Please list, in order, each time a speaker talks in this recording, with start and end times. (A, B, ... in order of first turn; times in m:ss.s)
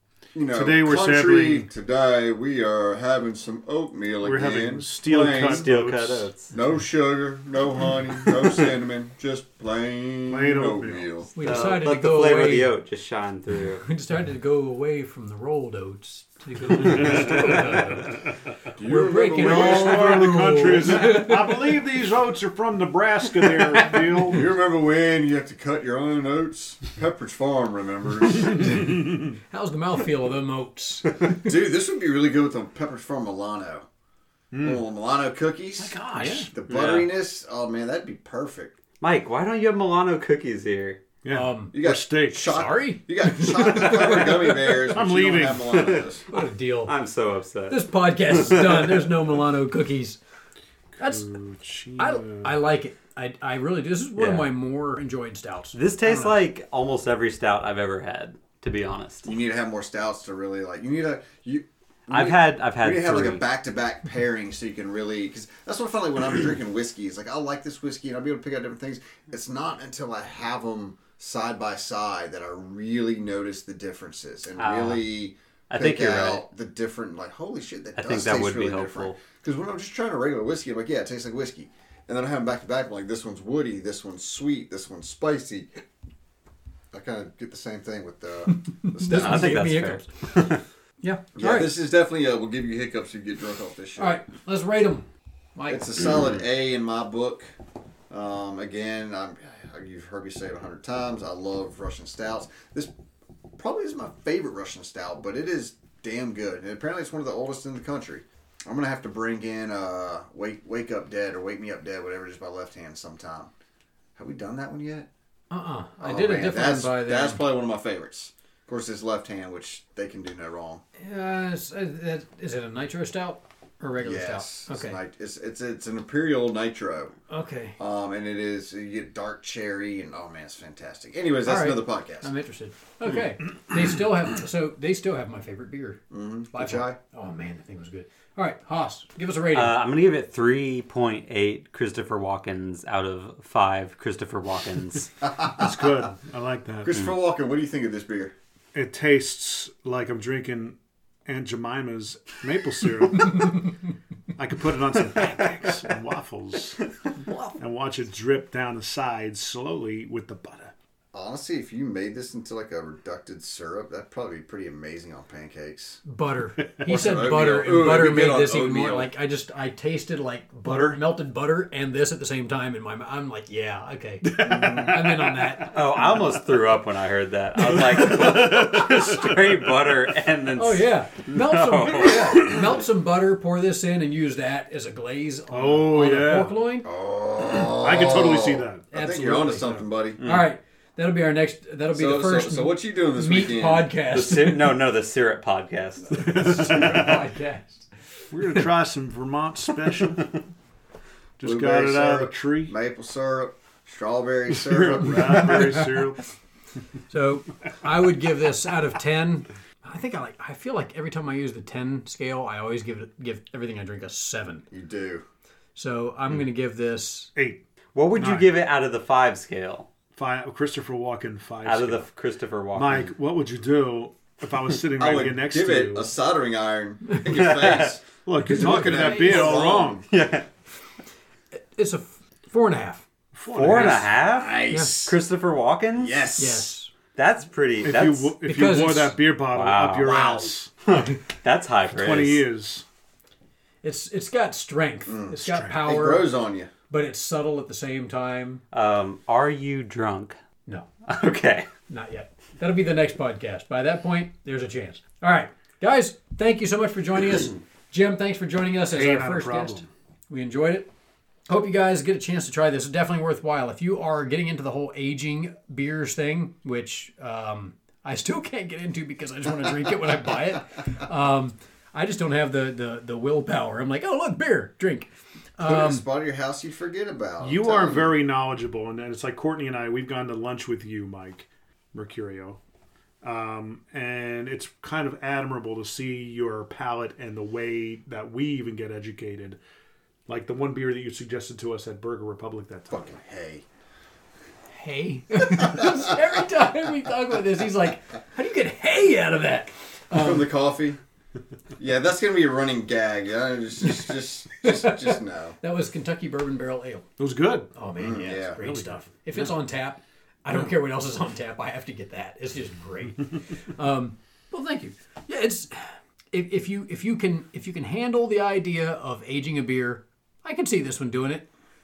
0:00.3-0:05.7 A
0:00.5-0:01.7 B
0:04.2-0:06.3 B
0:05.4-0:06.5 C
0:06.5-0:11.3 A
0:10.3-0:11.1 B
0:11.4-0:12.7 D
0:11.4-0:13.8 C
0:13.8-0:18.2 D
0:18.7-0:20.4 A
0:18.8-0:21.7 D
0:19.3-0:24.5 B
0:24.2-0:29.2 A
0:29.5-0:31.4 D
0:31.2-0:33.9 A
0:34.5-0:34.8 B
0:34.6-0:38.8 A
0:35.8-0:36.5 B
0:36.1-0:36.5 D
0:36.7-0:37.1 C
0:39.0-0:41.0 C
0:41.2-0:42.5 B
0:41.3-0:41.8 D
0:41.7-0:46.2 A
0:42.3-0:44.3 D
0:44.9-0:45.9 B
0:45.7-0:47.9 C
0:46.3-0:47.0 D
0:47.7-0:50.2 D
0:51.0-0:51.3 D
0:51.0-0:52.5 B
0:52.0-0:56.4 D
0:54.2-0:54.6 C
0:55.7-0:59.3 C
0:59.2-1:25.8 A
1:02.1-1:03.4 C
1:14.6-1:15.0 C
1:15.7-1:16.4 C
1:18.0-1:19.2 C
1:26.9-1:29.7 A
1:28.5-1:30.1 D
1:29.1-1:30.6 C
1:31.0-1:31.7 D
1:31.4-1:34.2 A
1:34.0-1:35.9 D
1:35.7-1:37.5 A
1:38.1-1:42.9 A
1:43.6-1:53.5 A
1:54.2-1:55.1 A
1:55.5-1:57.4 D
1:56.0-2:00.8 A
2:01.0-2:05.0 D
2:04.0-2:07.1 A
2:07.3-2:07.8 D
2:07.8-2:12.3 A
2:11.4-2:19.8 D
2:16.1-2:17.0 A
2:19.5-2:25.3 C
2:25.4-2:27.0 B
2:26.8-2:28.3 A
2:28.7-2:33.7 B
2:34.4-2:36.8 B
2:37.6-2:40.7 B
2:41.1-2:46.0 A
2:46.0-2:55.8 D
2:46.8-2:49.1 A
2:54.4-2:55.2 A
2:55.6-3:02.6 C
2:58.0-2:59.2 B
3:00.5-3:06.9 D
3:05.5-3:06.5 B
3:06.8-3:10.2 A
3:07.7-3:08.9 B
3:08.9-3:14.7 D
3:10.2-3:10.5 C
3:11.9-3:13.9 A
3:14.1-3:16.9 C
3:16.1-3:17.9 D
3:18.3-3:20.4 B
3:21.4-3:22.7 B
3:21.4-3:25.8 A
3:24.5-3:26.2 B
3:27.1-3:34.6 D
3:34.7-3:35.2 A
3:35.8-3:37.3 D
3:37.3-3:37.6 B
3:37.9-3:39.9 C
3:38.2-3:38.5 B
3:40.1-3:42.0 B
3:41.6-3:43.1 C
3:42.8-3:46.1 B
3:45.0-3:50.0 A
3:47.3-3:48.0 C
3:48.2-3:50.0 B
3:48.4-3:49.7 D
3:49.4-3:50.5 C
3:51.5-3:53.0 D
3:53.3-3:54.1 B
3:53.5-3:56.2 C
3:54.2-3:55.2 A
3:54.7-3:55.0 D
3:56.0-3:56.8 A
3:56.4-3:56.9 D
3:57.1-3:58.4 C
3:57.8-4:00.7 B
3:58.4-3:59.2 D
3:59.5-4:02.5 C
4:00.0-4:00.5 A
4:01.9-4:02.8 B
4:03.8-4:06.3 D
4:05.0-4:06.7 A
4:05.4-4:05.8 B
4:06.9-4:08.6 D
4:08.7-4:10.4 C
4:11.1-4:11.7 C
4:11.9-4:20.9 D
4:18.9-4:19.9 B
4:21.5-4:36.1 D
4:35.6-4:38.2 A
4:37.4-4:42.6 B
4:43.2-4:49.6 B
4:50.3-4:53.1 B
4:52.9-4:53.6 A
4:54.7-5:00.5 D
5:00.1-5:01.0 A
5:01.8-5:05.6 A
5:04.6-5:07.1 D
5:07.2-5:07.7 B
5:07.7-5:21.5 D
5:08.0-5:08.8 A
5:08.6-5:09.0 B